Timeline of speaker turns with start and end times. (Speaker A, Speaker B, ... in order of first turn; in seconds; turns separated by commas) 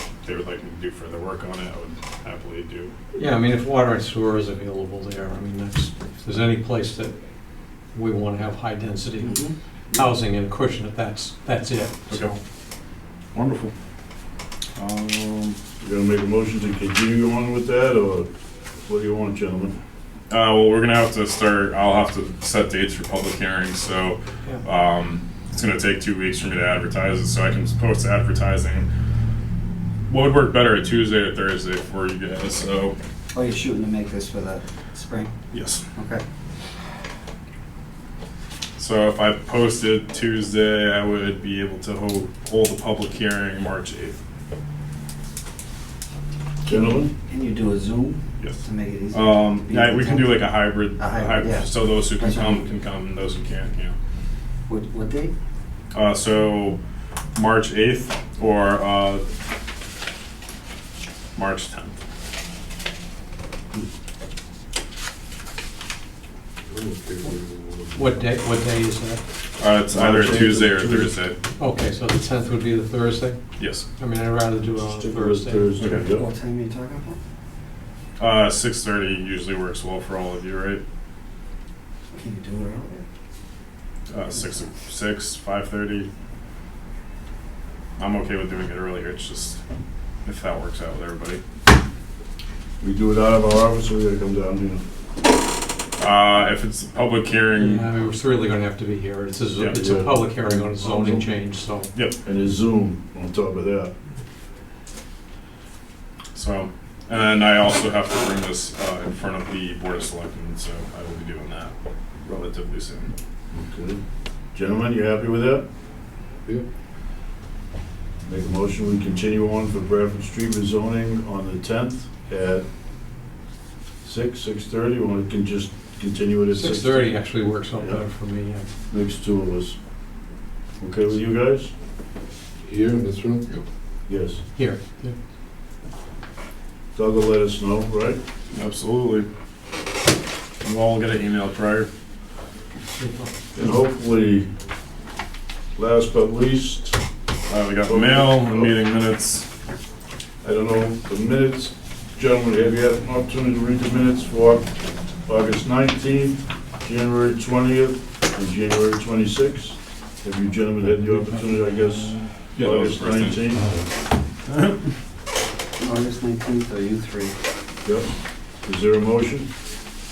Speaker A: 0.2-2.9, Speaker B: 3.1-7.2, Speaker B: 7.9-9.4, Speaker C: 9.2-10.0, Speaker B: 9.9-12.4, Speaker A: 13.3-13.7, Speaker A: 14.8-15.6, Speaker D: 15.8-18.3, Speaker D: 18.9-19.8, Speaker A: 20.3-28.9, Speaker A: 30.1-33.0, Speaker C: 33.3-35.3, Speaker A: 35.5-35.8, Speaker C: 36.0-36.2, Speaker A: 38.8-44.2, Speaker D: 46.7-47.1, Speaker C: 46.7-52.7, Speaker A: 48.4-54.0, Speaker C: 54.7-55.3, Speaker A: 55.9-56.8, Speaker A: 57.3-59.2, Speaker A: 61.4-62.0, Speaker E: 66.7-68.1, Speaker B: 67.9-69.2, Speaker A: 69.6-71.4, Speaker D: 69.9-71.1, Speaker B: 71.6-73.4, Speaker A: 73.6-73.8, Speaker B: 74.0-75.7, Speaker D: 74.8-76.2, Speaker A: 75.8-76.0, Speaker C: 76.1-77.2, Speaker A: 78.2-80.8, Speaker C: 82.1-83.0, Speaker A: 84.1-86.1, Speaker A: 88.0-89.6, Speaker A: 90.2-91.4, Speaker D: 92.8-94.8, Speaker A: 96.0-98.2, Speaker B: 97.5-101.9, Speaker D: 99.7-101.3, Speaker D: 102.2-103.9, Speaker A: 106.3-111.7, Speaker A: 112.2-113.1, Speaker D: 113.5-114.0, Speaker D: 114.5-115.7, Speaker D: 118.2-122.7, Speaker D: 124.0-127.1, Speaker B: 126.5-128.7, Speaker D: 128.9-129.8, Speaker D: 130.8-131.7, Speaker E: 132.7-133.6, Speaker D: 134.1-134.4, Speaker B: 134.6-135.2, Speaker D: 136.9-138.2, Speaker A: 138.5-139.3, Speaker A: 140.6-141.9, Speaker B: 143.0-143.3, Speaker D: 143.5-144.5, Speaker D: 145.8-147.0, Speaker A: 147.5-149.5, Speaker D: 147.8-148.7, Speaker D: 150.4-154.7, Speaker D: 155.3-163.6, Speaker A: 162.6-163.4, Speaker A: 164.5-164.8, Speaker C: 165.8-167.3, Speaker D: 167.8-168.1, Speaker D: 168.7-169.5